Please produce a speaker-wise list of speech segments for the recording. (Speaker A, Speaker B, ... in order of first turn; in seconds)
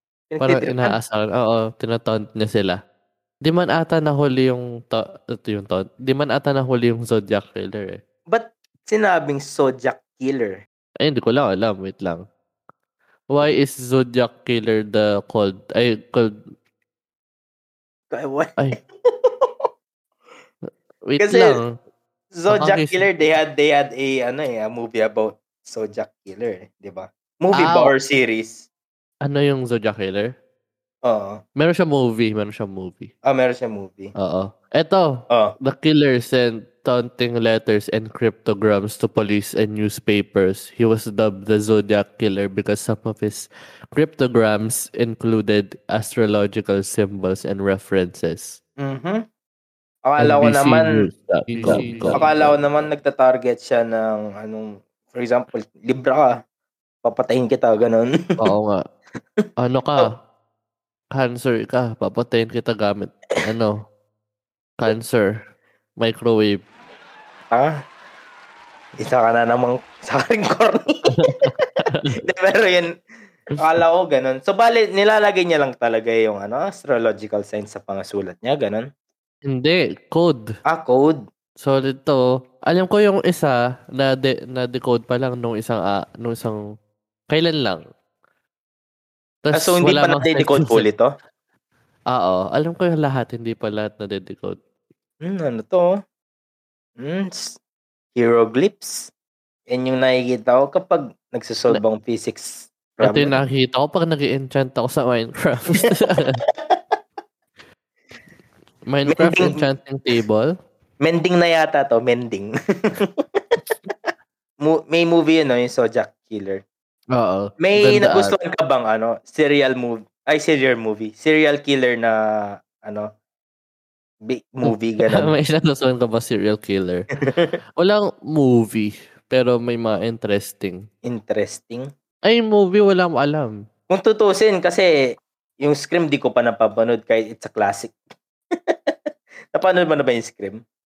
Speaker A: 0.3-0.9, 8.3-10.6, 18.1-18.6, 19.2-19.5, 21.2-21.6, 22.4-28.7, 31.1-31.4, 33.2-34.1, 48.8-49.2, 50.1-51.0, 51.6-56.3, 57.0-58.1, 69.0-71.5, 72.2-72.9, 73.5-78.9, 80.7-81.2, 89.5-91.1, 95.2-95.9, 97.0-97.6, 98.1-99.1, 99.7-103.4, 109.1-109.6, 111.0-113.1, 114.6-116.6, 117.6-123.1, 124.2-125.3, 127.2-127.5, 131.0-131.9, 133.9-134.9, 135.6-137.9, 138.7-138.9, 139.5-140.6
Speaker B: 0.4-2.8, 3.4-8.0, 11.0-12.2, 13.3-16.4, 21.1-21.7, 22.5-23.1, 27.5-27.9, 29.2-30.3, 31.6-33.1, 34.1-48.6, 50.2-52.5, 58.4-58.8, 59.6-60.1, 61.1-63.8, 64.8-65.3, 66.0-66.6, 71.1-72.2, 79.4-80.5, 81.6-86.6, 87.3-87.8, 89.4-90.8, 92.1-94.6, 103.0-106.4, 108.9-110.5, 117.1-118.3, 124.6-127.1, 127.8-130.8, 132.3-133.5